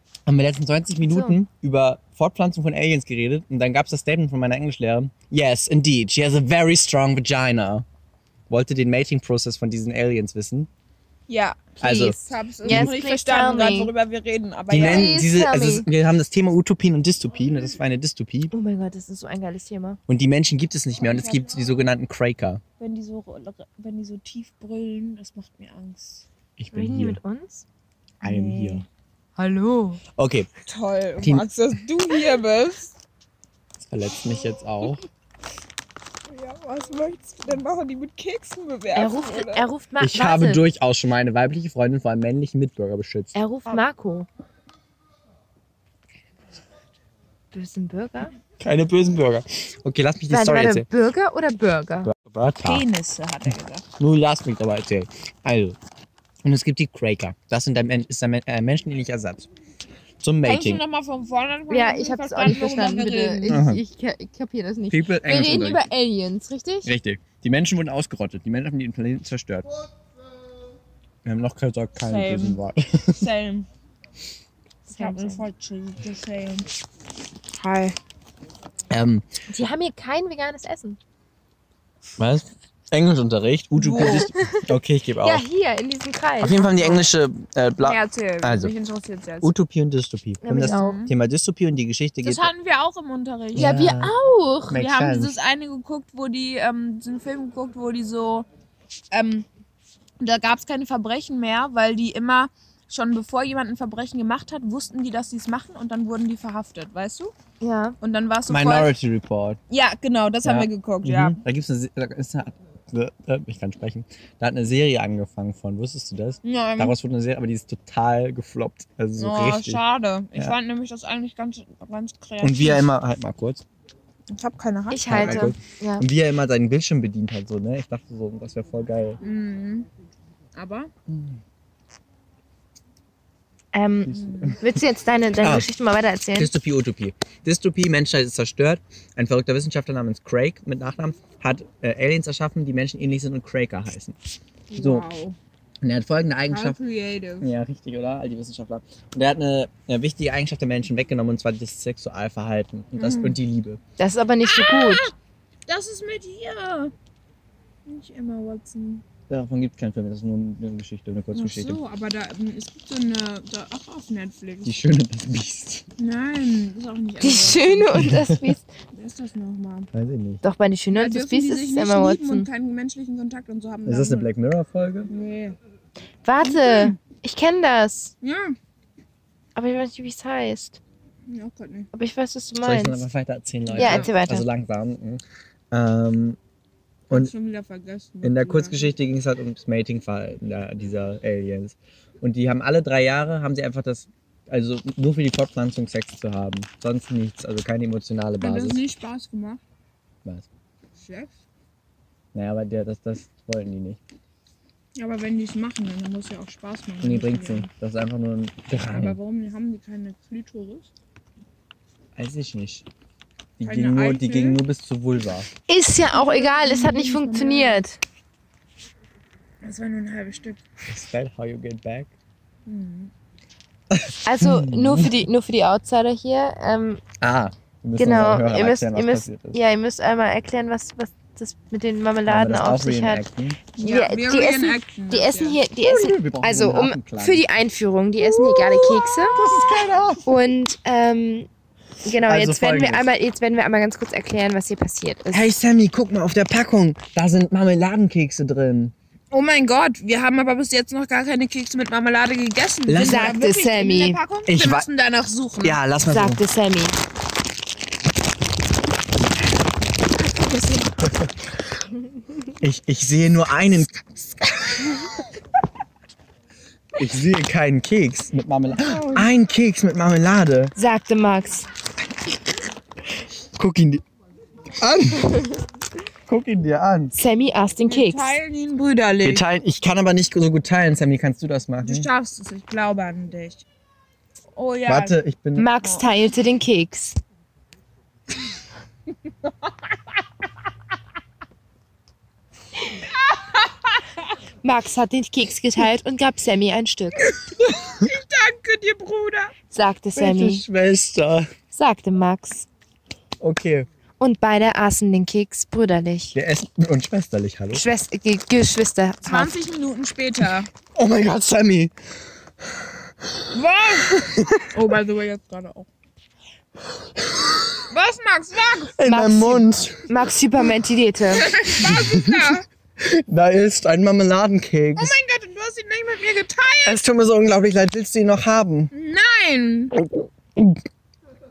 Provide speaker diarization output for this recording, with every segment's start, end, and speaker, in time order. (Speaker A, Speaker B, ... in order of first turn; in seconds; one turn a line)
Speaker A: 0.3-7.8
Speaker B: 1.1-1.4
Speaker A: 8.5-10.7
Speaker C: 11.3-15.1
Speaker A: 11.8-12.9
Speaker B: 11.8-13.9
Speaker A: 14.7-18.5
Speaker B: 14.8-15.9
Speaker B: 18.5-20.0
Speaker A: 20.1-22.6
Speaker C: 21.0-21.7
Speaker C: 22.8-26.2
Speaker A: 26.6-27.2
Speaker B: 26.7-27.6
Speaker A: 28.2-28.8
Speaker C: 28.2-28.8
Speaker B: 29.4-30.0
Speaker A: 30.1-30.5
Speaker C: 30.6-32.9
Speaker A: 31.2-31.5
Speaker A: 33.8-35.0
Speaker C: 36.3-39.7
Speaker B: 38.9-40.6
Speaker A: 40.0-43.3
Speaker B: 43.3-44.3
Speaker B: 47.5-48.3
Speaker A: 48.6-50.9
Speaker B: 50.3-52.1
Speaker A: 52.0-52.8
Speaker C: 52.6-53.9
Speaker A: 54.0-55.8
Speaker A: 56.4-59.5
Speaker A: 60.2-60.8
Speaker C: 60.4-63.6
Speaker B: 61.7-66.9
Speaker A: 63.5-63.8
Speaker A: 64.9-65.9
Speaker A: 66.8-69.7
Speaker A: 71.2-73.2
Speaker C: 72.0-72.6
Speaker C: 73.1-73.7
Speaker C: 74.9-76.7
Speaker B: 74.9-75.4
Speaker C: 77.5-78.0
Speaker A: 78.9-79.2
Speaker B: 79.5-81.0
Speaker A: 82.2-85.4
Speaker C: 83.7-84.3
Speaker B: 83.9-84.6
Speaker B: 85.2-87.0
Speaker A: 86.4-88.7
Speaker C: 87.8-89.5
Speaker A: 89.4-92.5
Speaker B: 90.4-91.0
Speaker C: 90.6-91.2
Speaker C: 92.2-93.7
Speaker A: 93.5-94.1
Speaker B: 93.5-94.8
Speaker A: 94.7-95.3
Speaker C: 94.7-98.5
Speaker C: 99.1-99.5
Speaker C: 100.2-107.3
Speaker B: 107.6-108.0
Speaker C: 108.0-108.9
Speaker A: 108.5-109.6
Speaker C: 109.7-111.4
Speaker A: 110.4-119.8
Speaker C: 116.4-116.9
Speaker C: 119.2-122.9
Speaker A: 122.4-123.6
Speaker C: 124.3-125.5
Speaker B: 124.9-126.0
Speaker A: 125.0-129.2
Speaker C: 129.2-129.9
Speaker C: 130.5-130.9
Speaker A: 131.1-131.4
Speaker B: 133.7-136.5
Speaker A: 134.1-134.6
Speaker C: 134.1-134.6
Speaker A: 135.4-135.7
Speaker A: 136.3-144.2
Speaker C: 144.7-145.4
Speaker A: 144.8-145.1
Speaker A: 145.8-146.8
Speaker C: 146.5-147.5
Speaker A: 147.4-153.8
Speaker C: 152.9-153.4
Speaker B: 154.0-155.0
Speaker C: 154.4-155.1
Speaker C: 155.7-156.9
Speaker C: 157.8-159.0
Speaker A: 159.3-161.8
Speaker C: 161.3-164.7
Speaker A: 164.6-165.8
Speaker C: 166.0-168.2
Speaker B: 167.2-168.7
Speaker A: 167.9-168.4
Speaker C: 168.9-169.9
Speaker A: 169.9-170.4
Speaker B: 170.4-172.5
Speaker C: 170.9-174.3
Speaker A: 173.8-175.1
Speaker C: 175.1-175.6
Speaker B: 176.2-178.1
Speaker C: 176.4-177.0
Speaker C: 178.2-178.6
Speaker B: 179.5-180.8
Speaker C: 181.3-181.9
Speaker B: 181.9-183.0
Speaker A: 182.6-186.4
Speaker C: 183.7-184.1
Speaker B: 183.8-184.5
Speaker C: 187.1-188.9
Speaker A: 188.2-198.8
Speaker C: 198.4-199.6
Speaker C: 200.9-201.3
Speaker A: 202.3-204.0
Speaker C: 204.9-207.7
Speaker A: 207.0-209.2
Speaker C: 208.9-210.9
Speaker A: 212.2-212.8
Speaker A: 213.6-215.5
Speaker C: 213.6-214.6
Speaker B: 215.7-218.0
Speaker C: 216.1-217.8
Speaker C: 219.6-220.6
Speaker A: 220.8-222.1
Speaker C: 222.7-223.1
Speaker A: 223.9-225.1
Speaker B: 224.2-227.0
Speaker A: 227.2-229.6
Speaker B: 228.0-233.2
Speaker A: 232.3-233.6
Speaker C: 233.8-235.6
Speaker B: 233.8-239.4
Speaker A: 235.8-237.4
Speaker A: 238.2-240.2
Speaker C: 239.3-239.9
Speaker B: 240.2-241.5
Speaker B: 242.0-245.5
Speaker A: 242.2-243.1
Speaker A: 245.3-248.9
Speaker C: 249.3-255.8
Speaker A: 252.9-253.4
Speaker B: 253.0-254.2
Speaker A: 254.5-254.9
Speaker A: 255.6-256.4
Speaker B: 256.1-257.0
Speaker C: 260.4-260.9
Speaker A: 261.0-261.3
Speaker A: 262.6-264.8
Speaker A: 266.9-270.7
Speaker B: 270.7-271.7
Speaker A: 273.6-274.0
Speaker A: 274.8-275.5
Speaker B: 275.3-275.5
Speaker A: 276.3-277.2
Speaker B: 277.1-278.4
Speaker C: 277.9-279.4
Speaker A: 279.2-282.1
Speaker C: 281.8-283.6
Speaker C: 284.6-285.2
Speaker A: 284.9-285.7
Speaker B: 285.6-287.2
Speaker C: 285.8-286.1
Speaker B: 294.6-297.3
Speaker C: 297.5-299.5
Speaker B: 299.7-300.6
Speaker A: 300.1-301.5
Speaker B: 301.7-302.7
Speaker A: 303.4-303.9
Speaker B: 304.2-306.4
Speaker A: 306.3-307.8
Speaker B: 307.7-309.5
Speaker C: 309.2-310.7
Speaker A: 310.9-311.9
Speaker C: 313.5-315.9
Speaker A: 314.1-314.8
Speaker A: 317.2-317.8
Speaker C: 317.9-318.9
Speaker A: 319.0-320.1
Speaker B: 319.0-321.5
Speaker C: 321.3-322.6
Speaker A: 321.8-325.2
Speaker C: 324.9-327.0
Speaker A: 326.8-328.9
Speaker C: 328.9-329.9
Speaker A: 330.2-330.8